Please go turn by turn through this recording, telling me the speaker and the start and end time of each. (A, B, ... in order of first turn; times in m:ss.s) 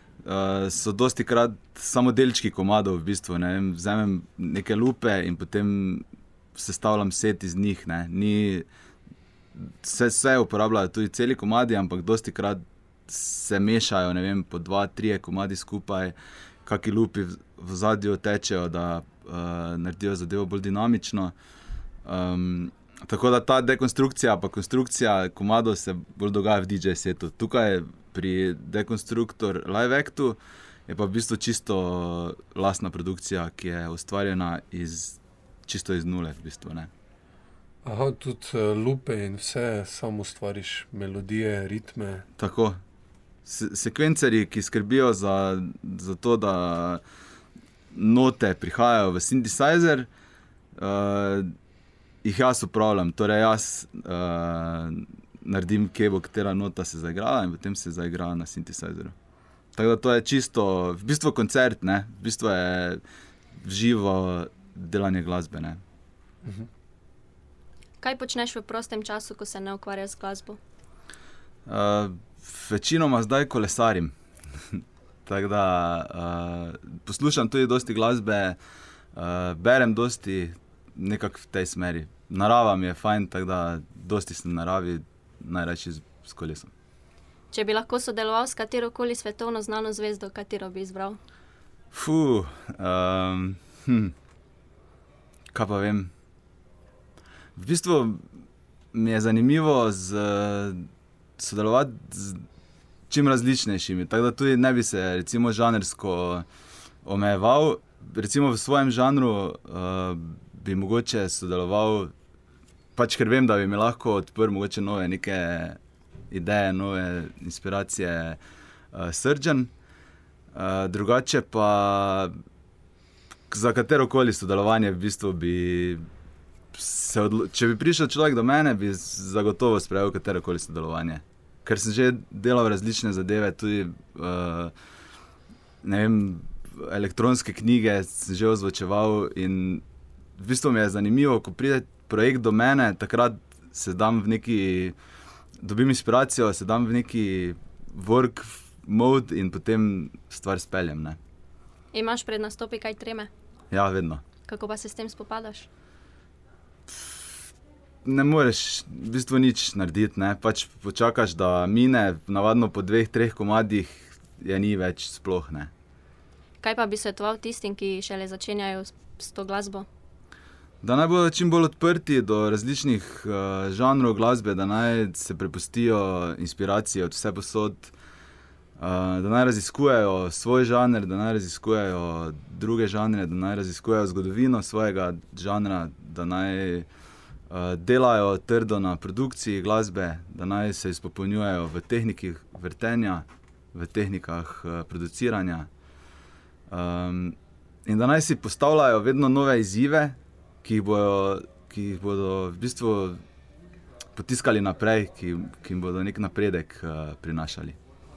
0:00.2-0:08.7 A
0:09.5-0:21.3 A
0:22.0-0:36.9 A
0:37.8-0:42.3 B
0:42.4-0:42.8 A
0:43.4-0:47.0 A
0:47.9-0:50.1 A
0:50.8-0:51.5 A
0:52.2-0:59.1 A
0:59.7-1:03.0 A
1:03.5-1:05.8 A
1:08.0-1:10.6 C
1:11.7-1:18.6 A
1:19.1-1:26.7 A
1:27.5-1:31.2 C
1:31.9-1:34.1 A
1:35.5-1:36.1 A
1:37.6-1:38.2 A
1:38.9-1:40.9 A
1:41.4-1:42.4 A
1:43.1-1:46.5 A
1:47.0-1:52.1 A
1:53.0-1:55.8 A
1:56.3-1:58.4 A
1:58.9-1:59.7 A
2:00.5-2:02.3 A
2:03.5-2:06.0 A
2:06.7-2:14.7 A
2:15.8-2:19.8 A
2:20.4-2:25.0 A
2:25.6-2:31.2 A
2:31.9-2:33.3 C
2:33.7-2:34.2 A
2:34.5-2:35.7 C
2:38.0-2:45.7 A
2:46.6-2:49.8 C
2:50.8-2:57.9 A
2:58.8-3:06.9 A
3:07.5-3:15.7 A
3:16.7-3:23.2 A
3:24.2-3:27.8 A